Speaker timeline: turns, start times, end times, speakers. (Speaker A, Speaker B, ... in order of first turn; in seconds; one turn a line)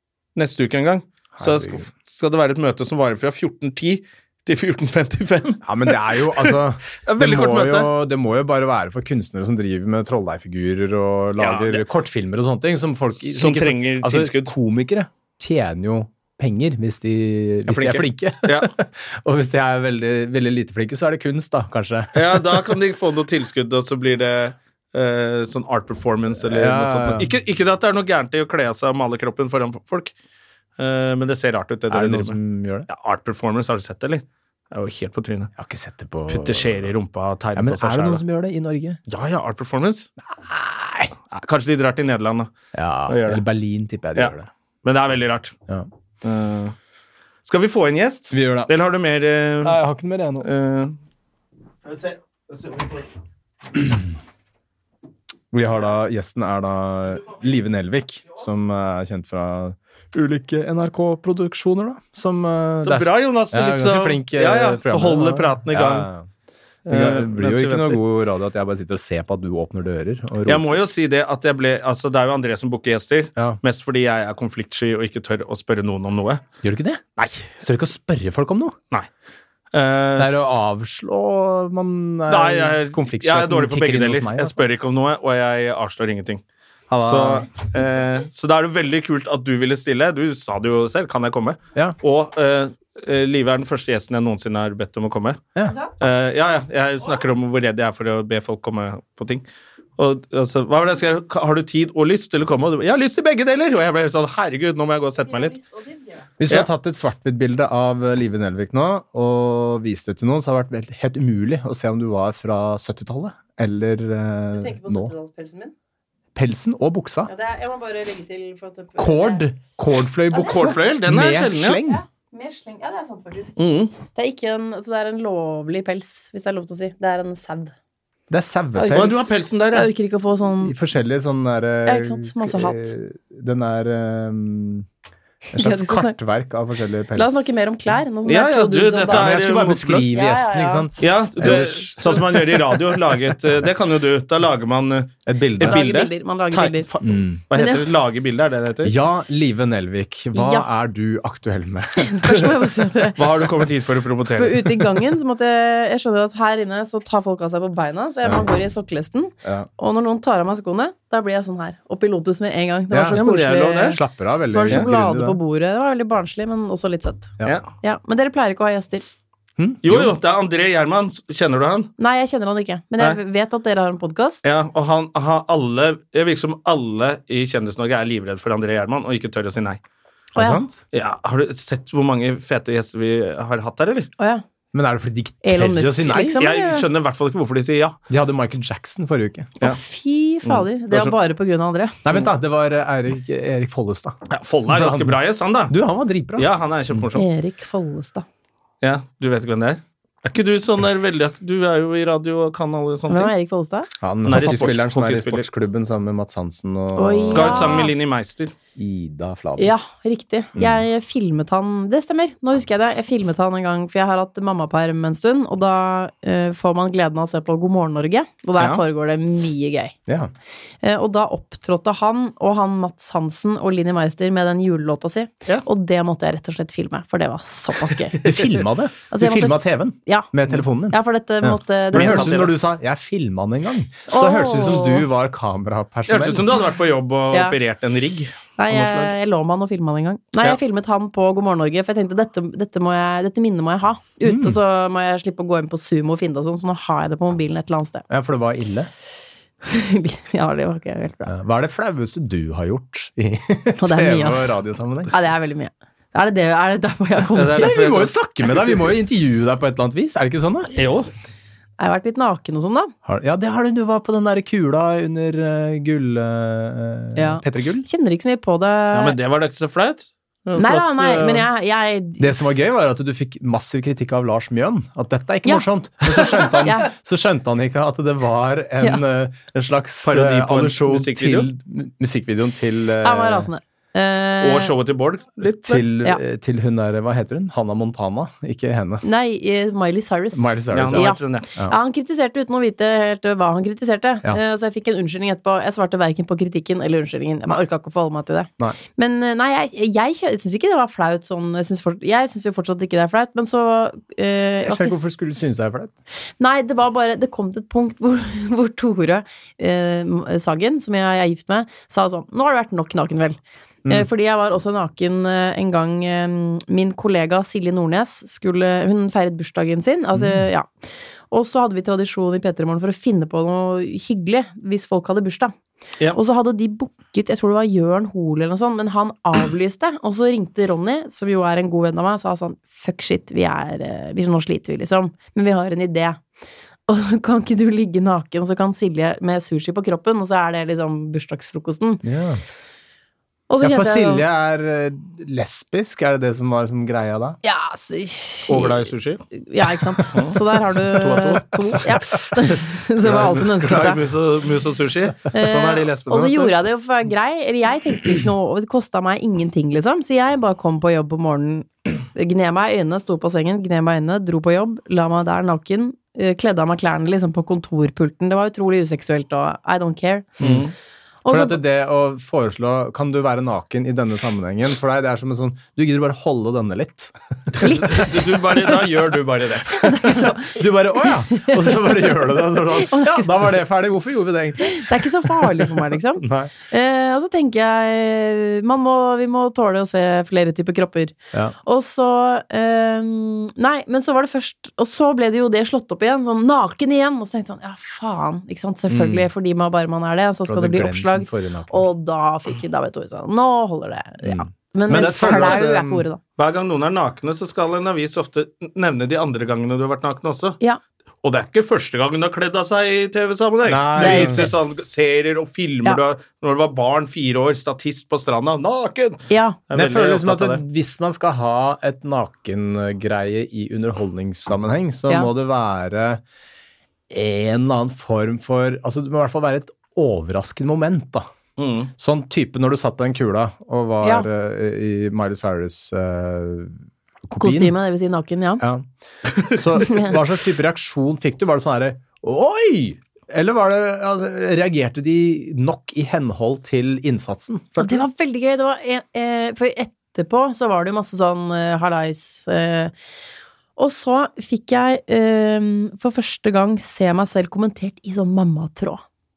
Speaker A: 0.3-7.9
Speaker B: 1.4-1.9
Speaker B: 5.6-22.7
Speaker A: 11.4-11.8
Speaker A: 13.2-14.5
Speaker A: 17.7-18.7
Speaker A: 22.1-30.1
Speaker B: 26.4-27.3
Speaker A: 30.8-32.4
Speaker B: 31.9-32.9
Speaker A: 32.9-35.5
Speaker B: 35.6-36.9
Speaker A: 36.3-38.2
Speaker B: 37.5-39.0
Speaker A: 39.1-40.1
Speaker B: 40.3-41.1
Speaker A: 41.3-42.5
Speaker B: 42.7-44.5
Speaker A: 43.1-43.4
Speaker A: 44.8-45.5
Speaker A: 46.2-46.7
Speaker A: 47.5-49.8
Speaker B: 48.3-48.7
Speaker B: 49.6-50.5
Speaker A: 50.4-50.9
Speaker A: 51.8-53.1
Speaker B: 55.5-66.3
Speaker A: 62.8-66.1
Speaker A: 66.8-68.0
Speaker B: 66.8-70.8
Speaker A: 70.5-76.4
Speaker B: 76.6-77.0
Speaker A: 77.2-77.5
Speaker B: 77.6-78.8
Speaker A: 79.7-80.6
Speaker B: 80.2-84.6
Speaker A: 82.3-86.4
Speaker B: 86.9-87.5
Speaker A: 87.0-95.4
Speaker A: 96.0-99.4
Speaker A: 100.0-105.6
Speaker C: 105.3-106.2
Speaker B: 106.4-115.1
Speaker C: 114.5-115.7
Speaker B: 116.3-117.3
Speaker C: 117.3-119.4
Speaker B: 119.0-122.0
Speaker C: 120.3-120.7
Speaker A: 120.4-121.8
Speaker C: 121.9-123.5
Speaker A: 123.6-123.9
Speaker C: 124.1-127.7
Speaker B: 128.3-129.3
Speaker C: 128.8-130.7
Speaker A: 128.9-129.9
Speaker B: 130.6-134.9
Speaker C: 131.8-132.9
Speaker C: 135.5-136.2
Speaker B: 135.5-137.5
Speaker C: 137.2-139.4
Speaker A: 138.3-140.1
Speaker B: 139.1-143.0
Speaker C: 140.1-140.9
Speaker A: 141.0-148.9
Speaker B: 145.3-145.8
Speaker C: 145.6-146.9
Speaker B: 147.0-147.4
Speaker C: 147.5-147.8
Speaker B: 148.8-152.5
Speaker C: 150.3-150.6
Speaker C: 152.0-153.2
Speaker A: 153.2-154.7
Speaker C: 154.3-169.0
Speaker B: 162.9-163.2
Speaker A: 163.1-164.0
Speaker B: 163.8-165.4
Speaker B: 169.6-170.1
Speaker A: 169.8-171.9
Speaker C: 172.0-174.4
Speaker A: 174.4-179.8
Speaker B: 180.3-180.8
Speaker C: 180.4-180.6
Speaker A: 180.9-184.1
Speaker B: 184.7-186.4
Speaker C: 185.4-186.8
Speaker A: 186.4-188.0
Speaker B: 188.1-189.5
Speaker C: 189.6-192.0
Speaker A: 190.4-191.1
Speaker B: 192.0-195.2
Speaker A: 194.3-195.8
Speaker B: 195.7-197.0
Speaker A: 196.3-197.2
Speaker C: 197.1-198.2
Speaker A: 198.8-203.3
Speaker C: 203.1-203.9
Speaker B: 204.0-207.8
Speaker A: 204.2-205.4
Speaker C: 206.9-207.9
Speaker A: 207.3-208.5
Speaker B: 208.8-209.7
Speaker C: 209.6-219.9
Speaker B: 210.6-210.8
Speaker B: 220.1-220.3
Speaker C: 220.8-228.2
Speaker B: 228.2-236.5
Speaker A: 228.2-228.5
Speaker C: 229.1-230.3
Speaker C: 230.9-232.4
Speaker A: 231.9-232.5
Speaker C: 234.1-235.1
Speaker A: 236.1-239.1
Speaker C: 238.6-248.0
Speaker B: 244.2-244.6
Speaker B: 248.1-248.9
Speaker C: 249.6-251.3
Speaker B: 251.3-255.1
Speaker C: 253.8-254.6
Speaker C: 255.1-257.7
Speaker A: 257.3-258.8
Speaker B: 257.6-260.7
Speaker A: 260.7-261.1
Speaker C: 261.8-262.9
Speaker B: 263.0-267.9
Speaker C: 267.1-269.1
Speaker A: 268.9-271.5
Speaker C: 270.6-272.3
Speaker B: 272.2-283.5
Speaker C: 275.4-276.9
Speaker A: 280.0-281.5
Speaker C: 283.0-284.7
Speaker A: 284.4-285.8
Speaker B: 285.6-289.0
Speaker C: 289.0-305.1
Speaker B: 290.3-291.7
Speaker A: 290.7-291.5
Speaker B: 304.6-305.9
Speaker C: 306.4-320.7
Speaker B: 320.1-320.4
Speaker C: 321.3-325.5
Speaker C: 326.1-336.2
Speaker C: 336.9-342.0
Speaker B: 342.0-342.4
Speaker C: 343.5-344.2
Speaker B: 343.6-347.4
Speaker C: 347.4-354.0
Speaker A: 348.5-349.2
Speaker A: 350.1-351.8
Speaker A: 353.0-356.5
Speaker C: 355.3-370.5
Speaker A: 370.4-370.7
Speaker C: 371.2-371.6
Speaker B: 371.3-378.1
Speaker C: 377.6-378.1
Speaker A: 377.6-379.8
Speaker C: 379.7-383.3
Speaker B: 379.8-386.5
Speaker C: 384.6-391.1
Speaker C: 391.6-406.2
Speaker B: 398.9-399.3
Speaker B: 400.5-401.9
Speaker B: 404.2-406.0
Speaker A: 404.9-405.6
Speaker A: 406.4-410.6
Speaker A: 411.2-420.6
Speaker B: 413.6-414.5
Speaker C: 414.0-414.5
Speaker C: 419.3-419.6
Speaker B: 419.7-426.2
Speaker B: 427.1-431.3
Speaker A: 431.6-431.9
Speaker B: 432.0-437.8
Speaker C: 437.4-438.6
Speaker B: 438.6-438.9
Speaker B: 439.4-447.8
Speaker C: 439.8-440.1
Speaker C: 447.8-452.9
Speaker C: 453.8-459.0